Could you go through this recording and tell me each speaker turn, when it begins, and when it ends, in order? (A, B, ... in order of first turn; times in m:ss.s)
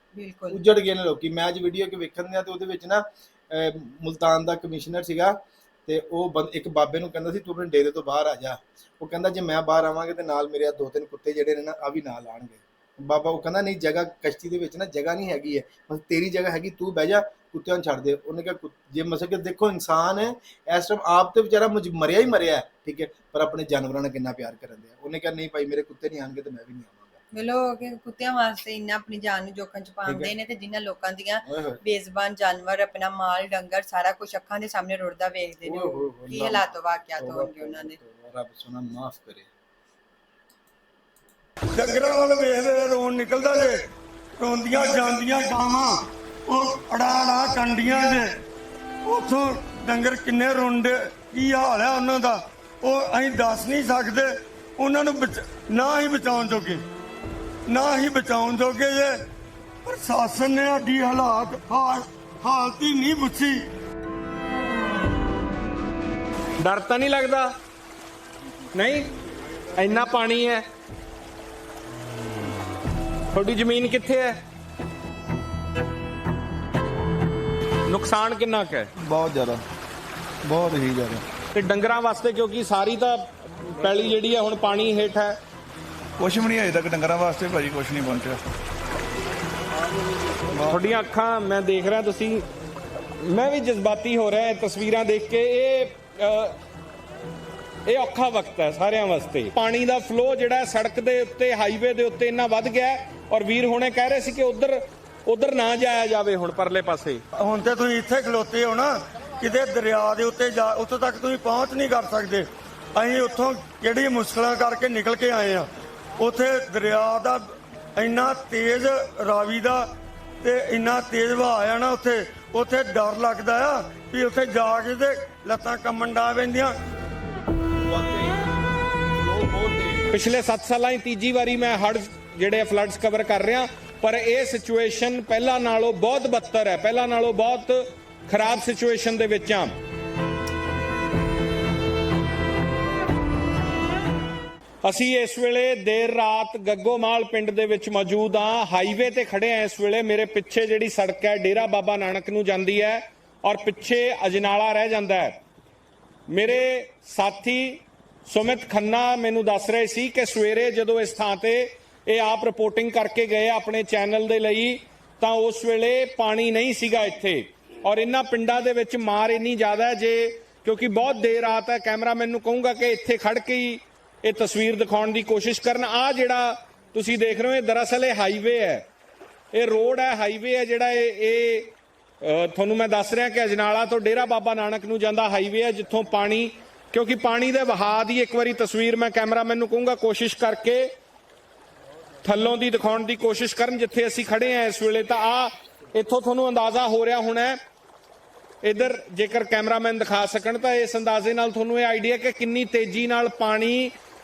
0:00.2-0:00.6 A
0:00.5-0:27.2 B
0:27.3-0:38.0 A
0:30.1-0:30.3 B
0:31.5-0:31.8 B
0:35.6-0:39.5 B
0:41.7-0:43.8 C
0:44.4-0:48.4 C
0:49.1-0:56.8 C
0:57.7-0:59.2 C
0:59.8-1:03.7 C
1:06.6-1:07.5 D
1:08.7-1:09.1 D
1:09.8-1:10.7 D
1:13.3-1:14.4 D
1:17.9-1:18.9 D
1:19.0-1:19.6 E
1:20.4-1:21.2 E
1:21.5-1:25.4 D
1:26.2-1:28.4 E
1:30.5-1:31.0 E
1:30.7-1:32.4 D
1:33.2-1:36.6 D
1:37.9-1:47.2 D
1:47.4-1:59.9 C
2:00.4-2:06.8 C
2:07.9-2:08.4 B
2:09.2-2:10.1 B
2:10.1-2:19.7 D
2:24.8-2:35.4 D
2:36.3-2:58.8 D
2:59.5-3:10.9 D
3:12.2-3:17.6 D
3:18.6-3:23.9 D